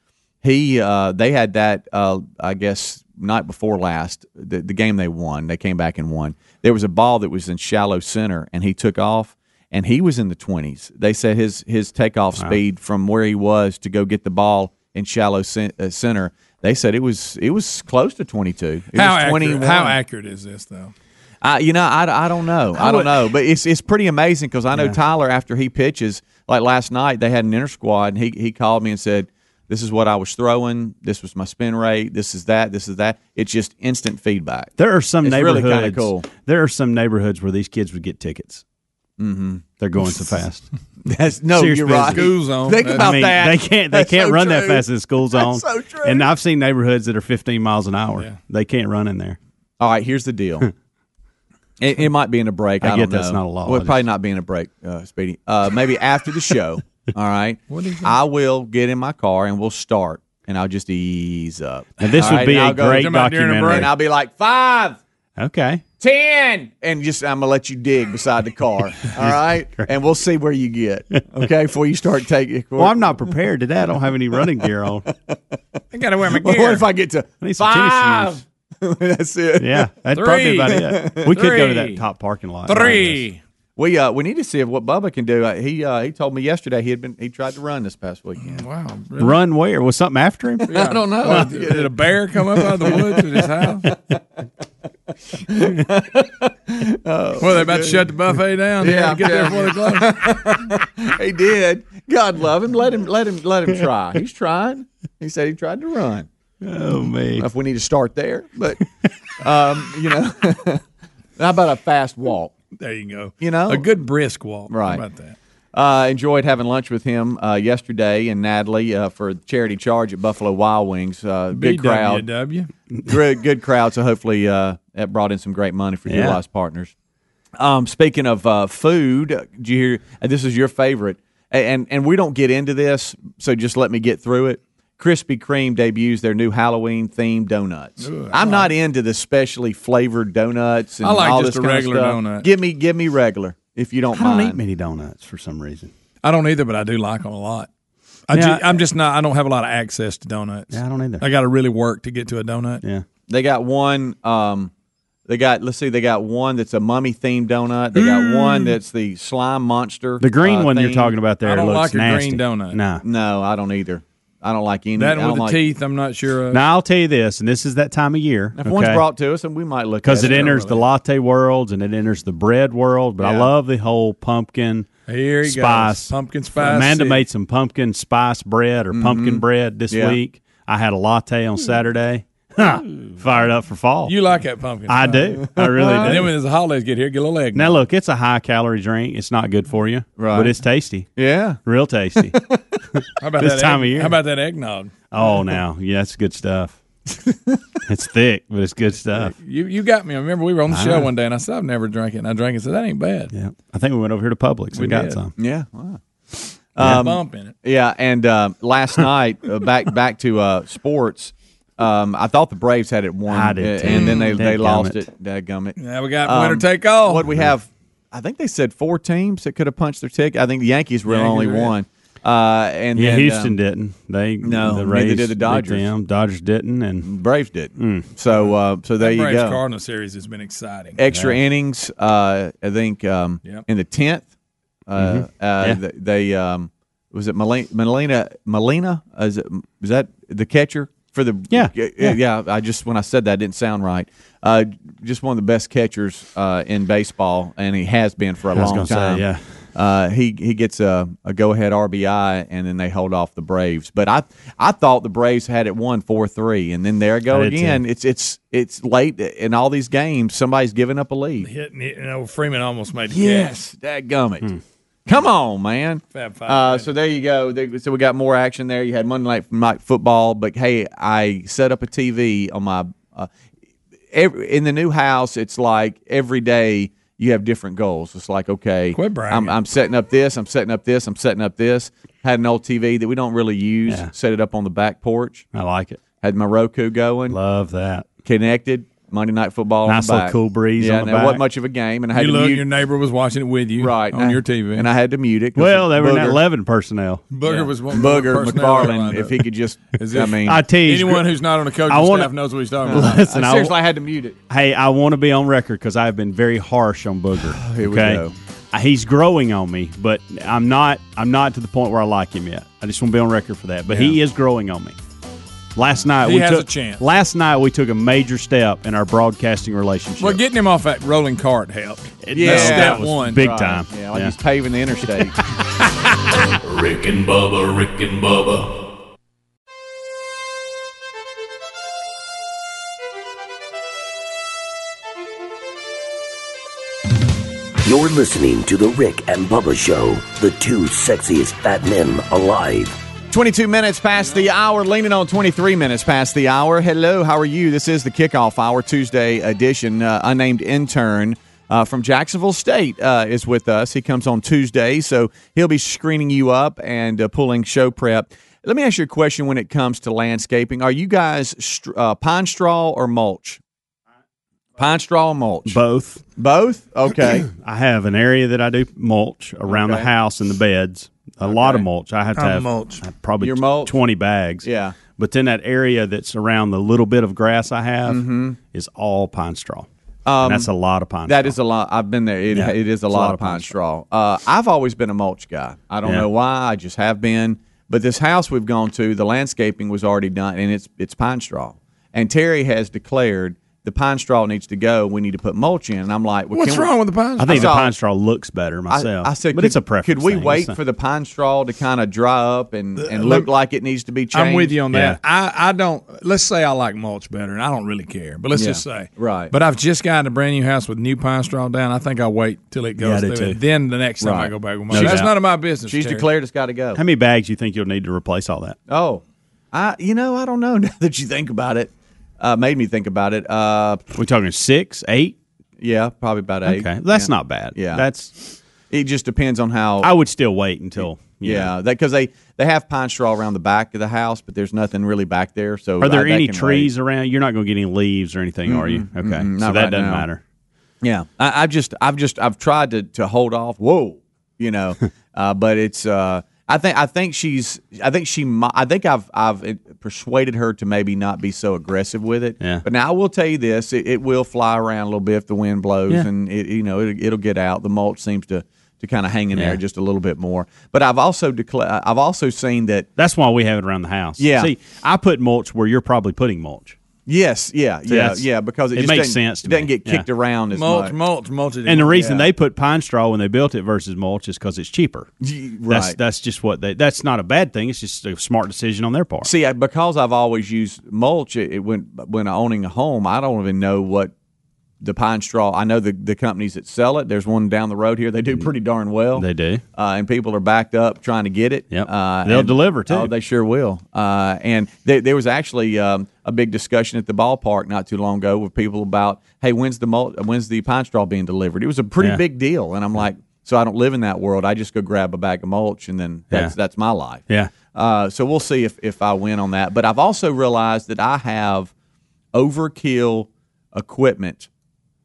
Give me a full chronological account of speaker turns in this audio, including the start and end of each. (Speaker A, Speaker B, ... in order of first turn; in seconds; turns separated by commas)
Speaker A: 0.4-20.0, Speaker B: 18.9-20.9, Speaker A: 21.4-36.3, Speaker B: 22.8-23.2, Speaker C: 34.8-38.6, Speaker A: 39.2-39.6, Speaker C: 39.8-40.7, Speaker A: 41.0-44.8, Speaker C: 41.5-49.4, Speaker B: 42.0-43.2, Speaker B: 45.4-46.2, Speaker A: 49.8-50.7, Speaker A: 51.8-63.1, Speaker C: 52.8-54.0, Speaker B: 57.7-58.1, Speaker C: 62.0-63.9, Speaker B: 62.9-63.9, Speaker A: 63.7-65.0, Speaker C: 65.4-65.8, Speaker A: 66.0-73.2, Speaker C: 69.2-69.9, Speaker C: 72.8-75.1, Speaker A: 74.6-75.4, Speaker B: 75.9-76.9, Speaker A: 76.3-79.9, Speaker C: 77.4-78.4, Speaker C: 79.6-83.2, Speaker B: 80.1-82.0, Speaker A: 80.6-81.4, Speaker B: 82.7-83.4, Speaker A: 83.8-88.6, Speaker B: 88.4-89.4, Speaker C: 89.2-91.5, Speaker B: 90.7-93.9, Speaker A: 90.7-94.2, Speaker A: 95.5-98.1, Speaker B: 97.4-100.6, Speaker A: 98.8-106.3, Speaker C: 106.6-107.5, Speaker A: 107.4-108.8, Speaker A: 109.4-110.8, Speaker A: 111.4-112.5, Speaker B: 112.8-115.4, Speaker A: 113.4-113.9, Speaker A: 114.7-115.0, Speaker A: 115.7-122.3, Speaker B: 121.5-122.7, Speaker A: 123.1-126.9, Speaker C: 126.1-126.4, Speaker A: 127.6-144.6, Speaker B: 138.0-138.7, Speaker B: 141.0-142.5, Speaker C: 144.1-145.9, Speaker B: 146.2-147.7, Speaker B: 148.3-152.8, Speaker C: 148.3-148.6, Speaker C: 150.7-151.2, Speaker A: 153.3-154.7, Speaker A: 155.3-161.1, Speaker B: 157.9-158.8, Speaker C: 160.2-163.0, Speaker B: 161.4-162.8, Speaker A: 163.0-165.6, Speaker B: 165.0-166.6, Speaker C: 166.5-169.0, Speaker A: 168.6-170.6, Speaker C: 170.0-174.9, Speaker B: 170.1-170.8, Speaker A: 173.2-173.5, Speaker B: 175.1-177.2, Speaker C: 175.4-184.2, Speaker A: 178.9-180.2, Speaker B: 184.1-185.4, Speaker C: 184.9-186.3, Speaker A: 185.6-186.3, Speaker B: 186.0-187.8, Speaker C: 187.6-191.1, Speaker A: 190.2-190.6, Speaker A: 191.2-191.6, Speaker C: 191.6-192.4, Speaker A: 192.3-192.8, Speaker C: 192.9-194.2, Speaker B: 193.2-195.0, Speaker C: 195.1-196.8, Speaker A: 197.3-197.6, Speaker C: 197.9-199.3, Speaker B: 199.2-203.3, Speaker C: 200.7-201.1, Speaker C: 203.3-205.3, Speaker B: 204.8-205.2, Speaker A: 205.4-206.0, Speaker A: 206.7-223.6, Speaker B: 206.8-207.6, Speaker C: 213.3-215.0, Speaker B: 213.9-214.3, Speaker B: 215.8-217.3, Speaker B: 221.1-221.8, Speaker C: 223.0-227.1, Speaker A: 224.4-225.9, Speaker A: 227.0-229.6, Speaker C: 227.8-228.1, Speaker B: 228.3-231.0, Speaker A: 231.0-234.3, Speaker C: 231.1-231.4, Speaker A: 234.9-261.5, Speaker C: 235.0-235.8, Speaker C: 241.5-242.2, Speaker C: 248.5-249.7, Speaker C: 257.3-257.8, Speaker B: 261.4-263.6, Speaker A: 263.1-264.5, Speaker A: 265.1-273.3, Speaker B: 266.1-266.9, Speaker A: 274.1-285.4, Speaker B: 278.9-279.5, Speaker C: 285.5-286.0, Speaker A: 286.2-287.4, Speaker C: 287.3-288.1, Speaker A: 288.2-292.6, Speaker C: 289.9-291.4, Speaker B: 292.1-294.9, Speaker A: 293.8-296.4, Speaker C: 295.6-297.3, Speaker B: 297.3-299.4, Speaker A: 297.4-300.6, Speaker B: 300.0-303.4, Speaker C: 300.5-301.2, Speaker C: 301.9-302.3, Speaker A: 302.9-304.4, Speaker C: 302.9-303.7, Speaker C: 304.5-315.0, Speaker A: 307.6-308.4, Speaker C: 315.8-320.4, Speaker B: 316.2-317.0, Speaker B: 320.2-323.4, Speaker C: 322.2-324.4, Speaker A: 322.3-325.4, Speaker D: 326.6-328.7, Speaker E: 337.8-343.0, Speaker A: 343.3-363.6, Speaker A: 364.8-365.8, Speaker C: 365.7-366.2, Speaker A: 366.4-367.5, Speaker C: 367.5-379.9, Speaker A: 369.7-370.1, Speaker A: 371.4-371.9, Speaker B: 372.4-373.0, Speaker A: 373.4-373.9, Speaker A: 374.6-375.0, Speaker A: 378.1-378.6, Speaker A: 380.2-380.7, Speaker C: 380.4-381.6, Speaker A: 381.3-397.9, Speaker C: 382.5-383.8, Speaker B: 396.5-397.7, Speaker C: 397.4-400.8, Speaker A: 398.9-404.8, Speaker B: 403.0-403.5, Speaker B: 404.3-416.3, Speaker C: 404.9-405.2, Speaker A: 408.5-409.5, Speaker C: 413.0-413.6, Speaker A: 414.2-415.3, Speaker C: 414.9-415.3, Speaker A: 415.8-417.0, Speaker C: 417.0-418.8, Speaker A: 418.9-424.1, Speaker C: 424.2-425.4, Speaker A: 425.8-428.1, Speaker C: 426.6-428.6, Speaker A: 428.9-430.1, Speaker C: 430.0-431.7, Speaker A: 431.0-436.9, Speaker C: 436.0-440.4, Speaker A: 438.7-440.3, Speaker A: 441.0-463.1, Speaker C: 459.5-459.8, Speaker C: 463.2-467.0, Speaker A: 464.4-464.7, Speaker A: 467.3-471.1, Speaker C: 468.1-470.2, Speaker B: 470.7-472.3, Speaker C: 471.9-475.3, Speaker A: 472.2-472.5, Speaker A: 475.4-476.2, Speaker C: 475.9-479.5, Speaker A: 479.4-484.3, Speaker A: 485.0-511.9, Speaker C: 489.4-489.8, Speaker C: 491.9-493.3, Speaker A: 512.5-514.7